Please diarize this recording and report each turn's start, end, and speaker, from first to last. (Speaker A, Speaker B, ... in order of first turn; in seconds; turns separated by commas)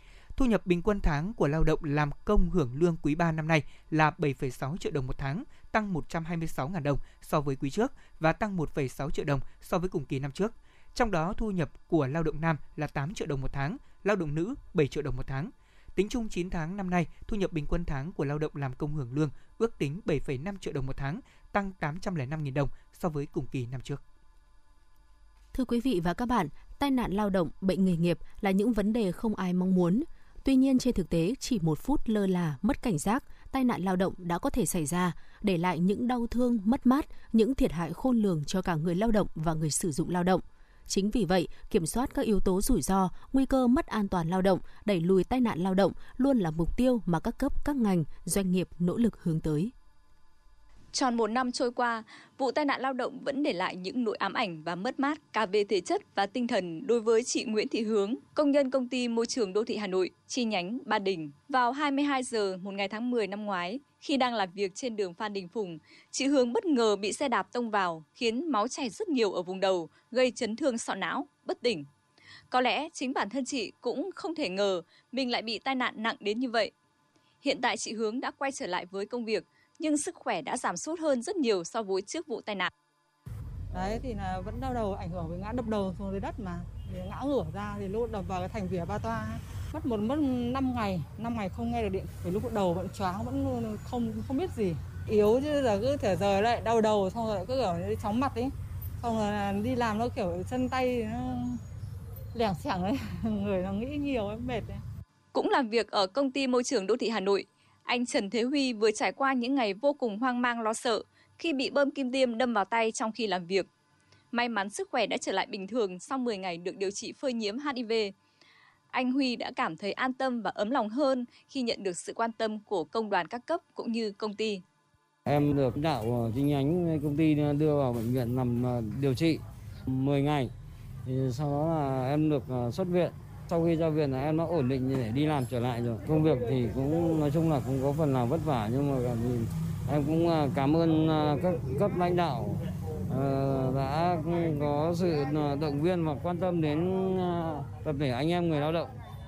Speaker A: 0.4-24.0, Speaker B: 25.5-49.7, Speaker C: 50.9-71.9, Speaker C: 72.5-76.7, Speaker C: 77.4-82.7, Speaker D: 83.7-101.6, Speaker D: 102.3-104.8, Speaker C: 105.3-113.7, Speaker C: 114.3-118.1, Speaker C: 118.9-124.6, Speaker E: 125.3-129.4, Speaker E: 129.9-130.5, Speaker E: 131.1-142.5, Speaker E: 143.1-148.9